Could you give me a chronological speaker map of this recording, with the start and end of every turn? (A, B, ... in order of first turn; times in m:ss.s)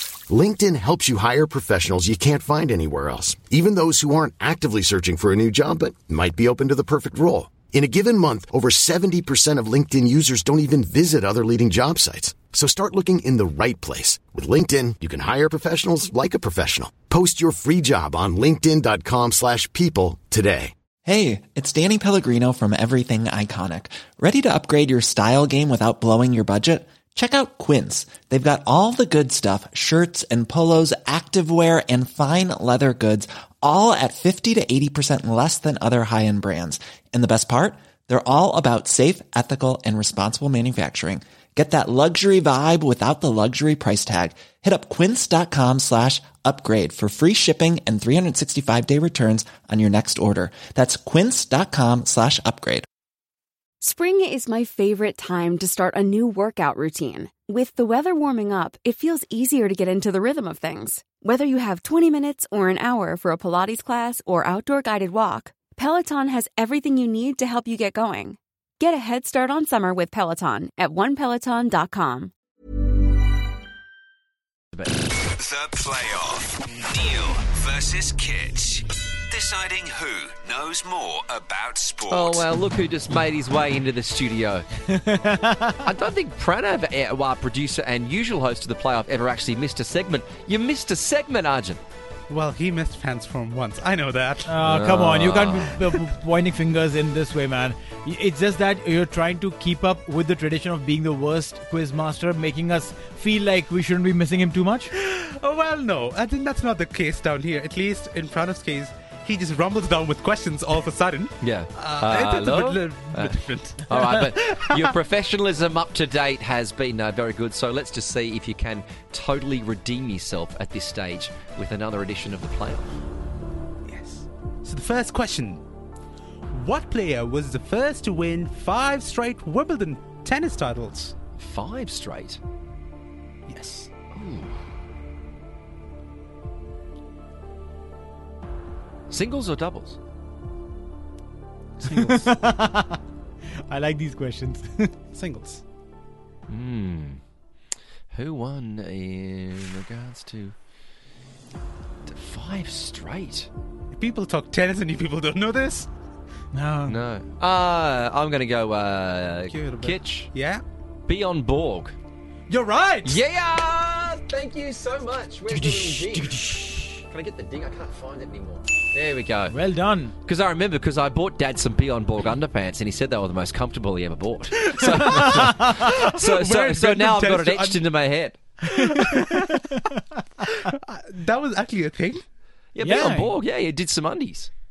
0:00.3-0:20.7 A
0:21.1-0:52.9 B
0:53.8-1:12.3 C
1:15.4-1:22.4 D
1:22.1-1:24.7 E
1:24.9-1:25.9 F
1:25.8-1:31.8 E
1:32.3-1:34.5 G
1:34.5-1:44.9 F
1:34.6-1:35.8 E
1:44.9-1:54.9 G
1:51.4-2:02.9 E
2:03.9-2:05.6 G
2:06.5-2:11.2 G
2:11.4-2:12.4 E
2:13.5-2:13.9 G
2:14.1-2:14.5 E
2:19.1-2:20.0 E
2:21.9-2:22.3 G
2:21.9-2:23.0 F
2:23.7-2:24.9 F
2:25.1-2:25.6 G
2:26.5-2:27.2 E
2:28.1-2:30.6 E
2:32.1-2:33.5 E
2:33.9-2:35.9 G
2:36.5-2:37.0 F
2:36.9-2:40.3 E
2:39.5-2:40.6 G
2:41.1-2:42.0 E
2:42.5-2:43.2 G
2:43.0-2:49.6 E
2:45.5-2:46.9 F
2:49.5-2:50.2 F
2:50.3-2:58.4 E
2:54.8-2:55.8 F
2:56.0-2:57.8 G
2:58.7-2:59.4 G
2:59.0-2:59.6 F
3:00.8-3:02.2 G
3:02.8-3:04.5 E
3:02.8-3:03.4 F